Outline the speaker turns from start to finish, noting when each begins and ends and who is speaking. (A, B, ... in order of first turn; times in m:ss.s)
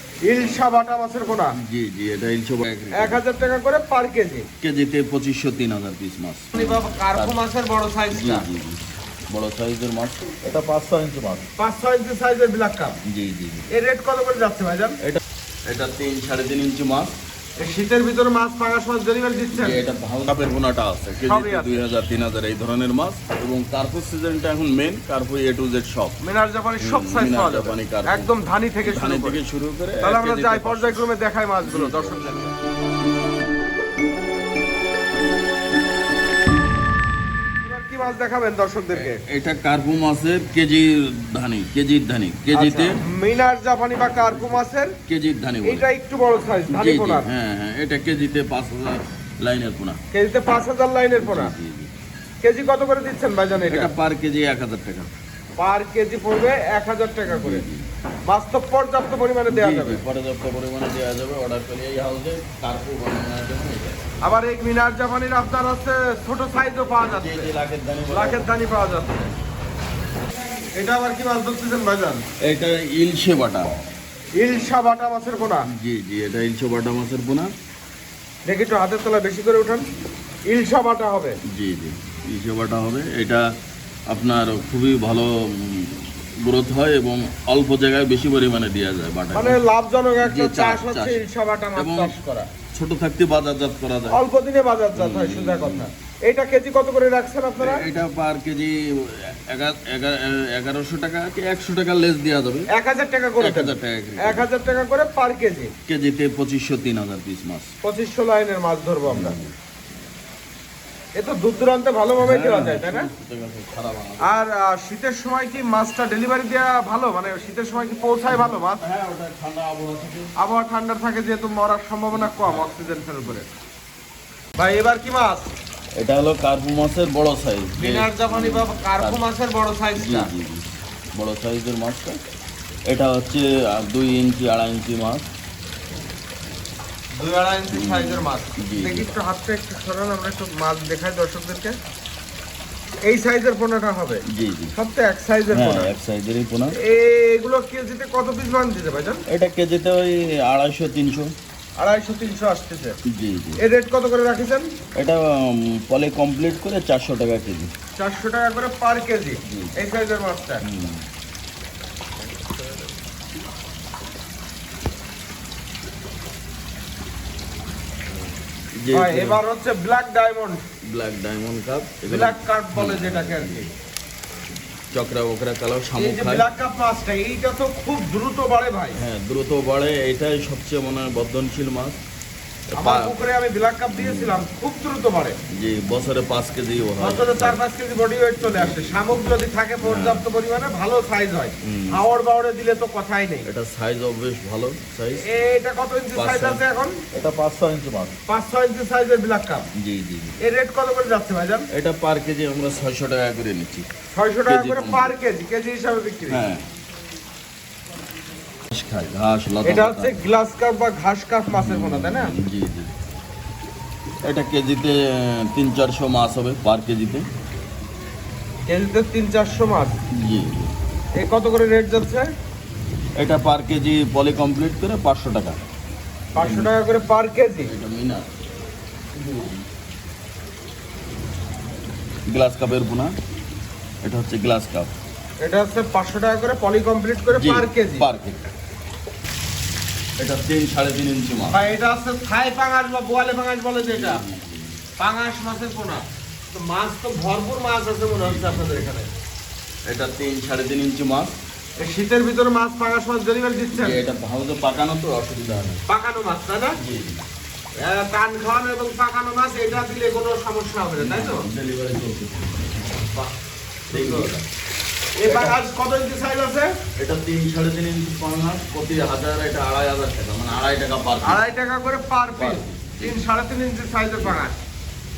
0:00.3-0:01.6 A
0:01.6-0:03.2 B
0:02.9-0:04.5 A
0:04.6-0:07.4 B
0:06.6-0:08.5 A
0:08.1-0:11.5 B
0:11.6-0:13.0 A
0:13.1-0:13.7 B
0:13.7-0:15.0 A
0:15.0-0:17.2 B
0:17.6-0:19.8 A
0:19.6-0:26.2 B
0:21.3-0:21.9 A
0:26.2-0:29.4 A
0:26.8-0:28.3 B
0:28.8-0:31.1 B
0:30.0-0:32.5 A
0:31.6-0:32.4 B
0:37.6-0:39.2 A
0:38.9-0:43.0 B
0:42.5-0:45.0 A
0:44.2-0:45.9 B
0:45.6-0:47.3 A
0:46.7-0:50.0 B
0:50.1-0:51.5 A
0:51.2-0:51.9 B
0:52.4-0:53.9 A
0:53.7-0:55.1 B
0:55.6-0:57.7 A
0:57.3-0:57.9 B
0:58.3-1:00.0 A
0:59.5-1:04.1 B
1:04.2-1:07.5 A
1:07.0-1:08.5 B
1:08.1-1:09.3 A
1:10.8-1:12.2 A
1:12.4-1:13.7 B
1:14.4-1:15.7 A
1:14.5-1:14.7 B
1:15.7-1:17.5 B
1:18.5-1:19.9 A
1:20.5-1:21.4 A
1:21.5-1:23.4 B
1:24.1-1:29.6 B
1:29.3-1:32.5 A
1:30.2-1:31.2 B
1:31.8-1:32.2 B
1:32.7-1:34.2 B
1:34.1-1:37.9 A
1:35.0-1:35.9 B
1:37.6-1:42.7 B
1:42.7-1:45.7 A
1:43.4-1:44.5 B
1:45.9-1:47.7 B
1:47.8-1:49.4 A
1:49.1-1:49.5 B
1:51.2-1:53.1 A
1:52.2-1:54.3 B
1:54.2-1:58.8 A
1:58.3-2:00.3 B
2:00.4-2:03.5 A
2:02.1-2:02.8 B
2:04.6-2:05.5 A
2:06.0-2:09.2 B
2:07.8-2:10.3 A
2:10.0-2:12.2 B
2:12.9-2:15.3 B
2:17.2-2:21.8 A
2:17.7-2:19.1 B
2:23.1-2:24.2 A
2:24.3-2:24.7 B
2:24.8-2:25.9 A
2:25.5-2:26.8 B
2:26.7-2:29.2 A
2:29.3-2:31.3 B
2:31.8-2:33.0 A
2:33.1-2:33.6 B
2:33.6-2:34.7 A
2:35.0-2:37.7 B
2:38.0-2:40.6 A
2:39.4-2:39.7 B
2:40.6-2:41.0 B
2:48.8-2:49.4 B
2:48.9-2:50.6 A
2:50.8-2:53.7 B
2:52.0-2:53.7 A
2:54.9-2:56.5 B
2:56.0-2:59.0 A
2:59.0-3:02.0 B
3:02.7-3:03.2 B
3:02.8-3:05.4 A
3:04.0-3:04.4 B
3:05.6-3:07.6 B
3:07.0-3:13.5 A
3:08.4-3:09.3 B
3:09.8-3:10.2 B
3:11.6-3:12.0 B
3:13.4-3:15.4 B
3:15.1-3:17.0 A
3:16.1-3:18.2 B
3:18.3-3:19.7 A
3:19.8-3:20.4 B
3:20.4-3:21.7 A
3:21.7-3:23.9 B
3:24.1-3:26.4 A
3:24.5-3:25.2 B
3:26.3-3:26.6 B
3:28.7-3:30.2 B
3:29.6-3:32.3 A
3:31.5-3:32.9 B
3:34.2-3:37.3 B
3:38.7-3:40.0 A
3:40.2-3:40.7 B
3:41.2-3:42.3 A
3:43.2-3:45.6 B
3:46.4-3:47.7 A
3:46.4-3:46.7 B
3:47.6-3:48.3 B
3:49.2-3:49.5 B
3:52.3-3:53.1 B
3:54.0-3:54.9 B
3:55.4-3:58.1 A
3:57.3-3:58.5 B
4:00.2-4:01.6 B
4:01.5-4:04.2 A
4:03.9-4:04.8 B
4:05.0-4:09.1 A
4:08.2-4:08.9 B
4:09.9-4:11.4 B
4:11.8-4:14.0 A
4:13.7-4:15.8 B
4:15.9-4:16.8 A
4:16.8-4:17.2 B
4:17.8-4:21.5 A
4:21.0-4:23.0 B
4:23.9-4:24.3 A
4:23.9-4:24.5 B
4:25.2-4:26.7 A
4:25.3-4:25.6 B
4:27.0-4:31.4 B
4:31.2-4:34.5 A
4:32.4-4:33.2 B